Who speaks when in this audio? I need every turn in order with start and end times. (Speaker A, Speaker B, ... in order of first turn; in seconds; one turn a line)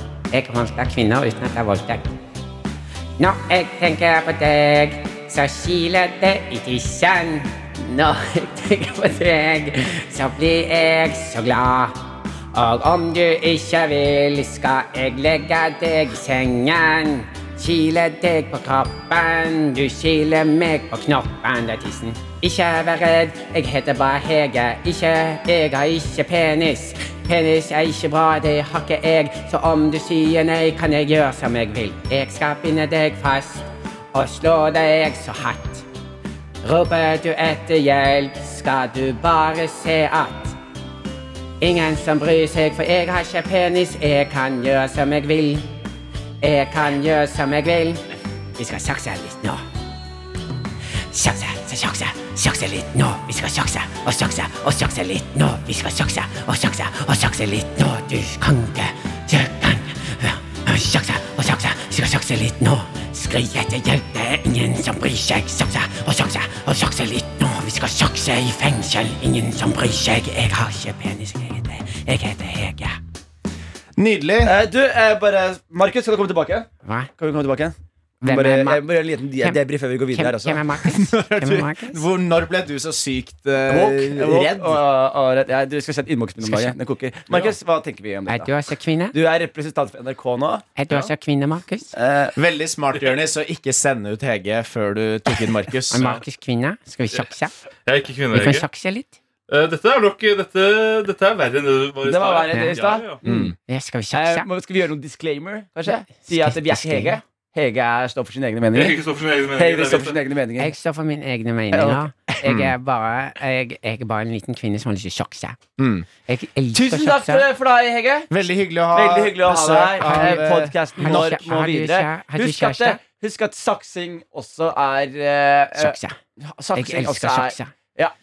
Speaker A: 0.3-2.0
Speaker A: 3.2-11.9
Speaker A: 12.5-33.6
Speaker A: 34.1-35.8
Speaker A: 36.6-40.5
Speaker A: 41.6-45.6
Speaker A: 46.4-48.0
Speaker A: 48.6-49.6
Speaker A: 51.1-72.9
Speaker B: 74.0-74.5
Speaker C: 74.4-80.7
Speaker A: 78.2-78.8
Speaker A: 80.1-82.0
Speaker B: 80.8-84.8
Speaker C: 83.7-88.6
Speaker A: 86.5-86.7
Speaker A: 88.3-89.1
Speaker C: 89.1-90.8
Speaker A: 90.8-91.8
Speaker C: 91.9-92.4
Speaker B: 92.4-96.2
Speaker A: 95.9-97.5
Speaker D: 96.0-96.2
Speaker D: 97.9-98.7
Speaker A: 98.3-99.1
Speaker D: 99.5-103.2
Speaker C: 102.0-103.5
Speaker B: 103.2-103.5
Speaker A: 103.7-104.5
Speaker C: 104.1-109.0
Speaker A: 106.3-107.1
Speaker D: 108.7-110.2
Speaker C: 109.5-110.7
Speaker A: 110.6-115.5
Speaker C: 111.7-112.4
Speaker B: 112.4-112.7
Speaker B: 115.8-116.1
Speaker A: 116.3-117.4
Speaker C: 116.7-118.3
Speaker B: 118.3-121.4
Speaker C: 118.9-128.1
Speaker A: 120.1-120.4
Speaker A: 121.0-123.0
Speaker A: 125.8-126.1
Speaker A: 126.8-127.7